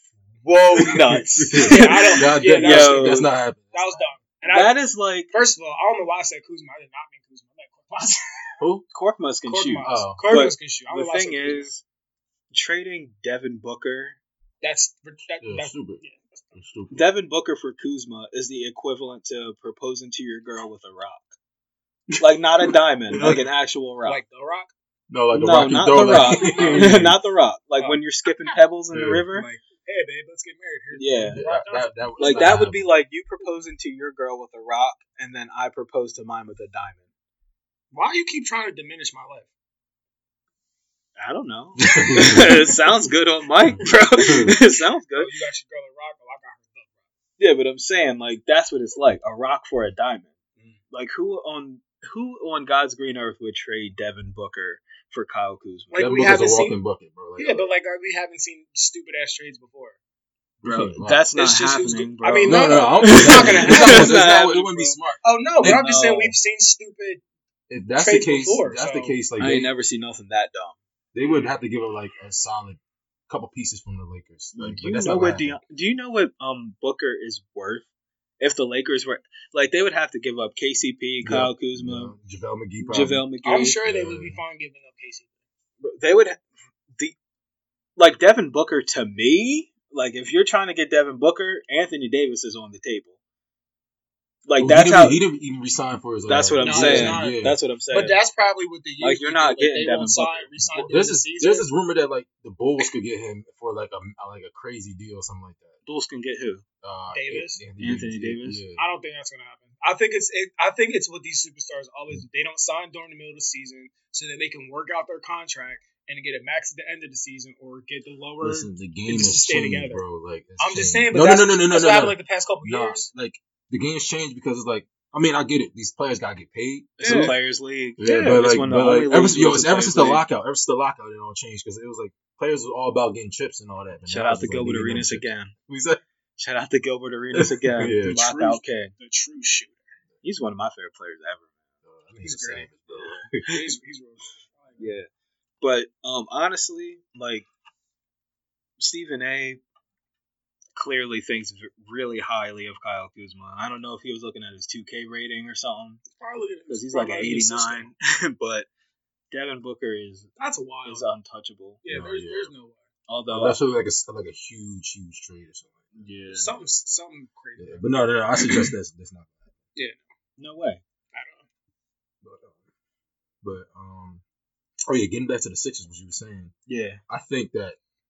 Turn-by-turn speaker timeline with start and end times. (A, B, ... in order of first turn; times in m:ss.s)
0:00.4-0:03.3 A
0:00.8-0:04.2 B
0:01.6-0:04.8 C
0:04.4-0:05.3 A
0:05.3-0:08.6 C
0:08.6-0:08.8 B
0:08.9-0:11.8 A
0:09.4-0:11.7 C
0:09.8-0:10.2 B
0:12.5-0:14.2 A
0:14.6-0:16.6 C
0:15.4-0:16.0 B
0:16.5-0:17.0 B
0:16.9-0:21.3 A
0:22.2-0:24.2 A
0:23.1-0:23.4 B
0:24.0-0:24.7 C
0:25.1-0:27.2 B
0:25.3-0:29.5 A
0:26.1-0:27.1 C
0:27.8-0:28.0 C
0:28.9-0:29.2 B
0:29.3-0:32.6 C
0:30.9-0:31.4 A
0:31.3-0:32.9 B
0:32.2-0:37.0 A
0:37.9-0:39.5 C
0:41.2-0:45.4 A
0:41.8-0:42.6 B
0:43.6-0:44.6 B
0:45.2-0:46.9 C
0:47.4-0:50.3 A
0:50.9-0:56.3 A
0:55.9-0:56.8 C
0:55.9-0:57.7 B
0:57.4-1:00.0 C
1:00.6-1:01.2 B
1:00.6-1:04.7 A
1:01.3-1:07.2 C
1:02.4-1:05.8 B
1:05.6-1:06.4 A
1:07.7-1:09.7 B
1:08.0-1:09.2 C
1:09.4-1:10.8 A
1:11.1-1:15.6 B
1:11.2-1:11.5 C
1:14.5-1:17.9 A
1:18.4-1:22.1 A
1:21.2-1:23.2 B
1:22.8-1:23.8 A
1:23.4-1:25.3 C
1:23.8-1:24.4 B
1:25.8-1:26.4 A
1:28.0-1:33.2 A
1:34.4-1:35.2 A
1:34.6-1:37.6 B
1:36.3-1:38.2 A
1:36.6-1:41.7 C
1:39.0-1:40.5 A
1:40.7-1:45.8 B
1:45.8-1:46.6 A
1:46.8-1:48.8 B
1:47.1-1:47.6 C
1:47.8-1:48.6 A
1:48.8-2:00.0 C
1:58.4-2:07.4 B
2:00.6-2:03.1 C
2:07.0-2:10.2 A
2:07.0-2:07.3 C
2:08.0-2:16.0 B
2:14.1-2:15.5 A
2:16.4-2:18.9 A
2:17.4-2:18.2 B
2:18.0-2:20.0 C
2:20.2-2:21.5 A
2:21.8-2:23.7 B
2:22.2-2:22.8 C
2:22.9-2:23.2 A
2:23.4-2:24.9 C
2:24.8-2:25.1 A
2:25.6-2:27.5 A
2:28.8-2:29.6 A
2:30.7-2:36.0 A
2:36.1-2:37.9 C
2:36.7-2:38.7 A
2:39.3-2:41.8 A
2:40.4-2:41.1 C
2:41.8-2:42.9 C
2:41.8-2:42.5 B
2:43.1-2:43.6 A
2:43.3-2:45.9 B
2:45.9-2:46.5 A
2:46.3-2:48.7 C
2:47.6-2:49.5 B
2:49.7-2:50.0 C
2:50.4-2:50.8 A
2:51.1-2:51.4 C
2:52.2-2:52.6 B
2:53.4-2:54.2 B
2:54.8-2:56.5 B
2:56.7-2:57.0 A
2:57.1-2:57.8 B